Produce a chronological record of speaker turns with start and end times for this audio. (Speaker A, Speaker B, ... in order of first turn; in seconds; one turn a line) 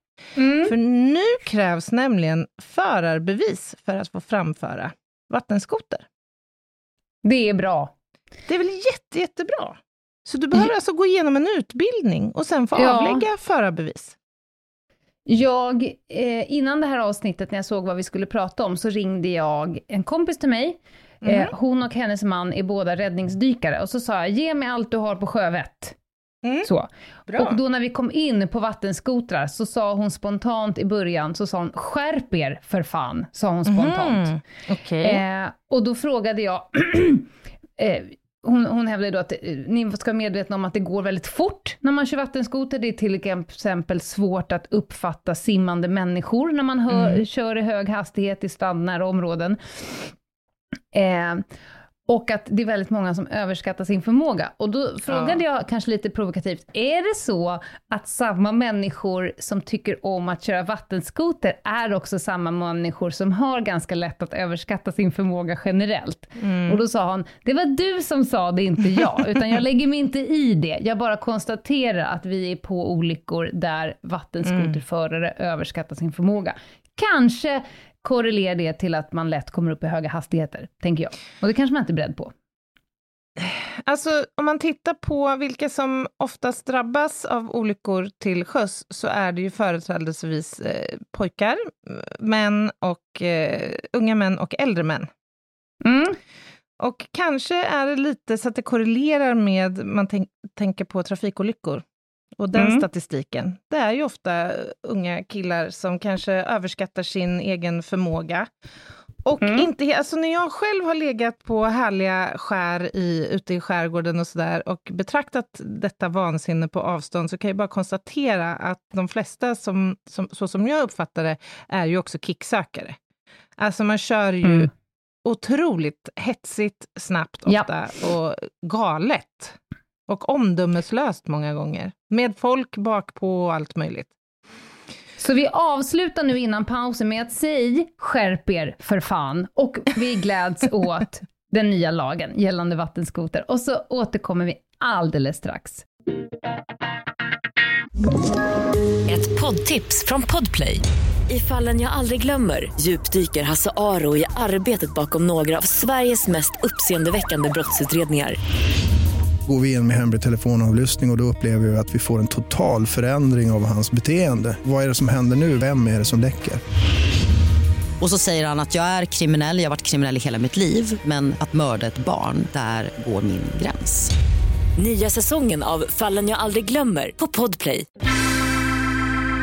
Speaker A: 0.3-0.7
Speaker B: 0.6-6.0
Speaker A: 7.2-7.9
Speaker B: 8.5-14.2
Speaker A: 12.8-13.2
Speaker A: 15.2-25.9
Speaker B: 21.2-21.5
Speaker B: 26.4-26.7
Speaker A: 26.6-34.3
Speaker B: 27.3-27.6
Speaker B: 33.6-35.2
Speaker A: 35.0-50.1
Speaker B: 46.9-47.2
Speaker A: 50.9-51.4
Speaker A: 52.1-82.3
Speaker B: 55.1-55.4
Speaker B: 66.4-66.8
Speaker B: 74.4-74.8
Speaker B: 83.4-95.1
Speaker A: 95.8-96.2
Speaker B: 96.8-101.8
Speaker B: 102.4-108.5
Speaker A: 102.5-102.8
Speaker B: 109.2-123.0
Speaker A: 109.4-109.7
Speaker B: 123.6-124.7
Speaker B: 125.2-134.1
Speaker A: 135.2-145.8
Speaker C: 149.1-158.4
Speaker D: 159.5-166.6
Speaker E: 168.0-174.1
Speaker C: 174.8-177.9